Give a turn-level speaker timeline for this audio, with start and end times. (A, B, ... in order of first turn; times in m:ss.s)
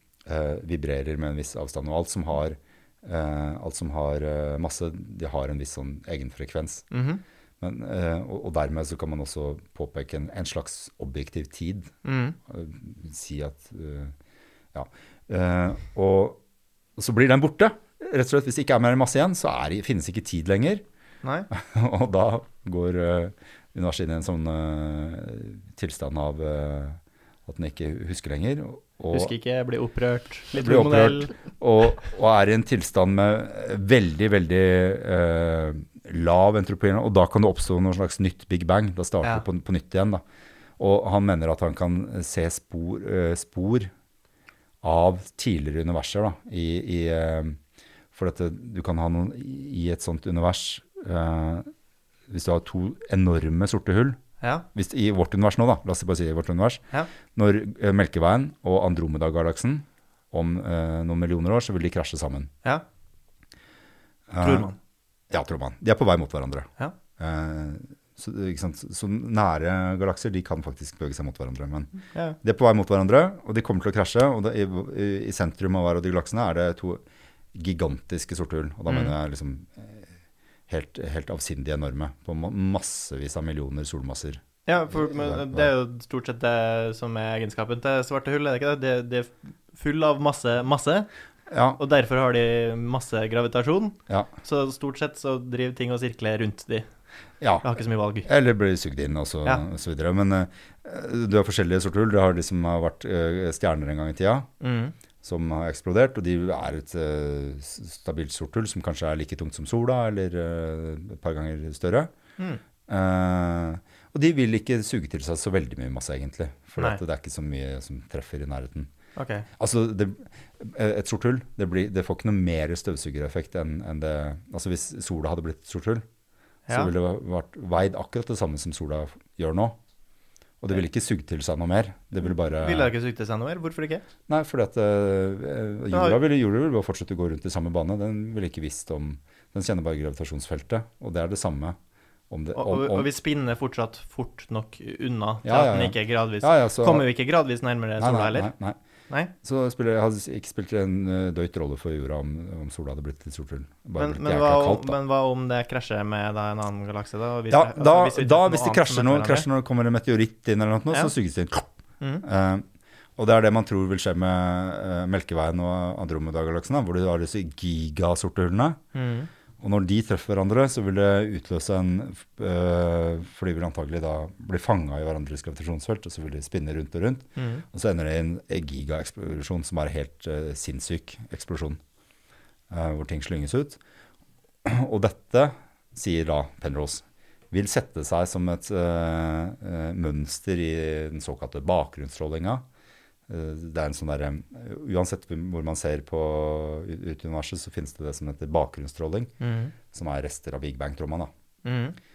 0:00.2-0:06.8 A
0:06.9-0:07.2 B
0:07.6-0:11.9 A
0:12.0-0:12.4 B
0:12.5-0:14.1 A
0:14.7-0:16.4 A
0:17.0-0:20.8 A
0:21.2-0:21.5 B
0:21.5-0:29.3 A
0:29.1-0:31.3 B
0:30.5-0:40.2 A
0:40.8-0:43.9 A
0:44.8-0:47.6 A
0:48.1-0:51.7 A
0:52.3-0:54.2 A
0:54.4-0:54.6 B
0:54.7-0:56.8 A
0:57.3-1:02.5 A
1:04.3-1:04.7 A
1:04.4-1:04.8 B
1:05.3-1:11.9 A
1:12.4-1:17.0 A
1:17.5-1:20.1 A
1:18.9-1:19.1 B
1:20.7-1:25.7 A
1:24.6-1:31.1 B
1:31.5-1:31.8 A
1:31.8-1:36.8 B
1:37.4-1:37.7 A
1:37.6-1:38.3 B
1:38.2-1:44.5 A
1:44.6-1:44.9 B
1:45.2-1:52.1 A
1:52.9-1:58.9 A
1:59.2-1:59.5 B
1:59.6-2:06.0 A
2:06.7-2:09.8 A
2:10.6-2:12.9 A
2:12.5-2:14.0 B
2:14.3-2:21.8 A
2:15.9-2:16.2 B
2:22.3-2:23.1 A
2:22.5-2:28.5 B
2:25.4-2:27.1 A
2:28.0-2:28.8 A
2:29.4-2:35.0 A
2:34.0-2:39.5 B
2:37.5-2:41.7 A
2:42.2-2:42.6 A
2:43.2-2:48.8 A
2:48.9-2:49.3 B
2:49.6-3:01.8 A
2:57.4-2:57.6 B
3:02.7-3:03.8 A
3:04.6-3:12.6 A
3:13.3-3:19.3 A
3:19.4-3:19.7 B
3:19.9-3:21.3 A
3:21.6-3:22.0 B